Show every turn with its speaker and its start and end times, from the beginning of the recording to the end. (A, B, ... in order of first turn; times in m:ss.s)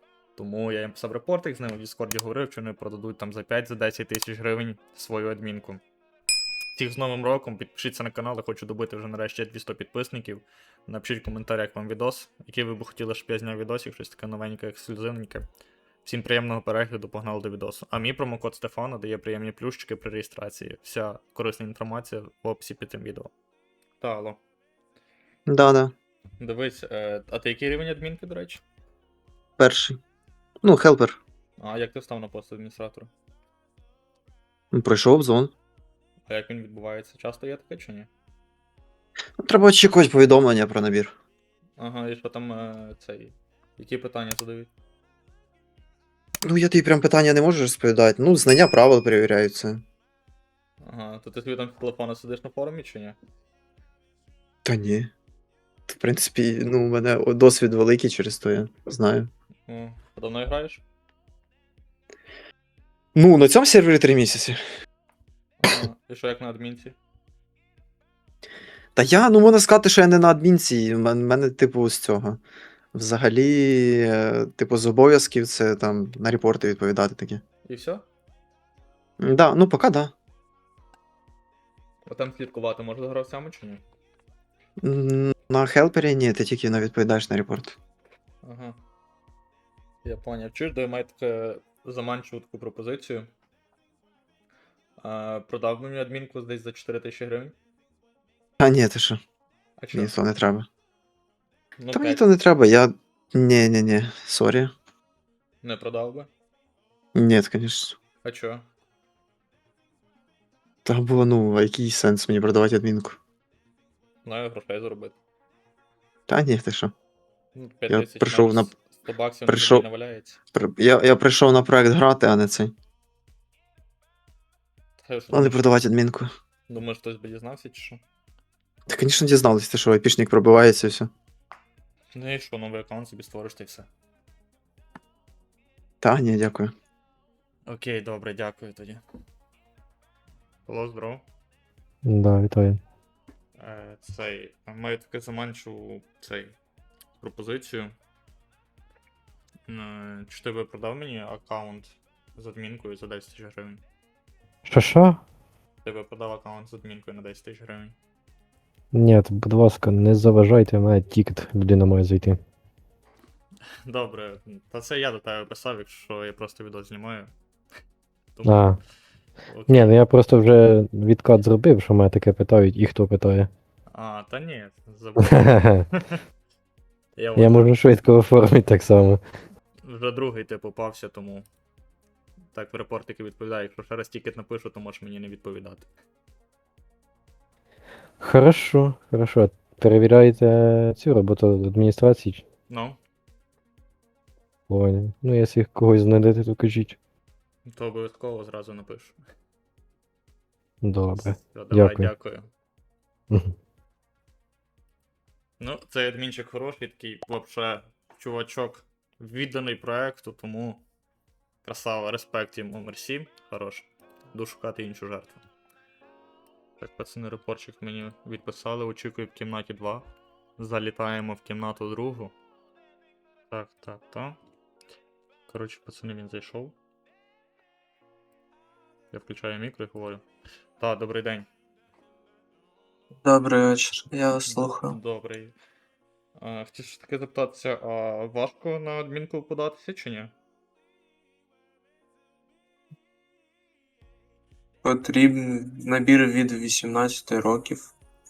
0:00.4-0:05.8 A
0:06.8-0:15.5 A
0:16.0-0:23.3 A
0:24.0-0:24.4 A
0:25.5-0:25.9 B
0:26.4-0:28.6 A
0:29.6-0:30.0 B
0:30.6-0:31.2 B
0:31.6-0:33.1 A
0:34.7-0:35.5 B
0:36.3-0:38.1 A
0:39.4-0:41.1 B
0:41.8-0:44.7 A
0:46.4-0:49.8 B
0:50.8-0:53.2 A
0:54.6-0:55.1 B
0:55.9-0:59.3 B
0:59.7-1:00.8 A
1:03.2-1:04.6 B
1:05.6-1:07.0 A
1:09.0-1:12.4 B
1:12.9-1:17.4 B
1:17.6-1:18.1 A
1:19.2-1:20.1 B
1:22.1-1:23.8 A
1:24.8-1:27.8 B
1:28.4-1:28.8 A
1:30.0-1:33.3 A
1:35.0-1:37.6 A
1:38.6-1:39.2 B
1:39.8-1:40.2 A
1:39.9-1:40.7 B
1:41.8-1:42.2 A
1:41.9-1:44.7 B
1:45.6-1:46.3 A
1:47.2-1:48.0 B
1:48.2-1:48.7 A
1:50.8-1:53.2 B
1:54.2-1:55.2 A
1:56.3-1:56.9 B
1:57.6-2:00.4 A
1:57.9-1:58.7 B
1:59.5-1:59.9 B
2:00.5-2:02.7 B
2:05.0-2:05.7 A
2:05.3-2:06.3 B
2:06.7-2:08.0 A
2:08.9-2:11.1 B
2:12.1-2:13.9 A
2:16.0-2:16.7 B
2:17.7-2:19.0 A
2:20.7-2:21.2 A
2:22.0-2:22.8 C
2:23.6-2:26.6 A
2:27.2-2:28.0 A
2:29.7-2:33.8 A
2:34.7-2:35.2 C
2:35.8-2:38.0 A
2:38.9-2:42.4 C
2:43.8-2:47.3 A
2:48.4-2:48.8 A
2:48.4-2:48.8 C
2:49.5-2:49.9 A
2:49.7-2:53.5 C
2:53.9-2:56.2 A
2:55.4-2:55.8 C
2:57.2-2:57.8 A
2:57.4-2:59.2 C
2:59.8-3:01.5 A
3:02.5-3:05.9 A
3:08.2-3:12.4 C
3:12.7-3:13.0 A
3:14.7-3:17.0 C
3:17.7-3:19.2 A
3:20.8-3:22.1 C
3:21.2-3:22.5 A
3:25.6-3:30.8 A
3:31.6-3:35.4 A
3:36.8-3:42.4 A
3:43.5-3:44.4 A
3:45.5-3:46.8 A
3:49.1-3:50.2 A
3:50.8-3:51.5 A
3:53.2-3:55.0 D
3:54.5-3:55.6 A
3:56.4-4:00.4 A
4:04.8-4:07.9 D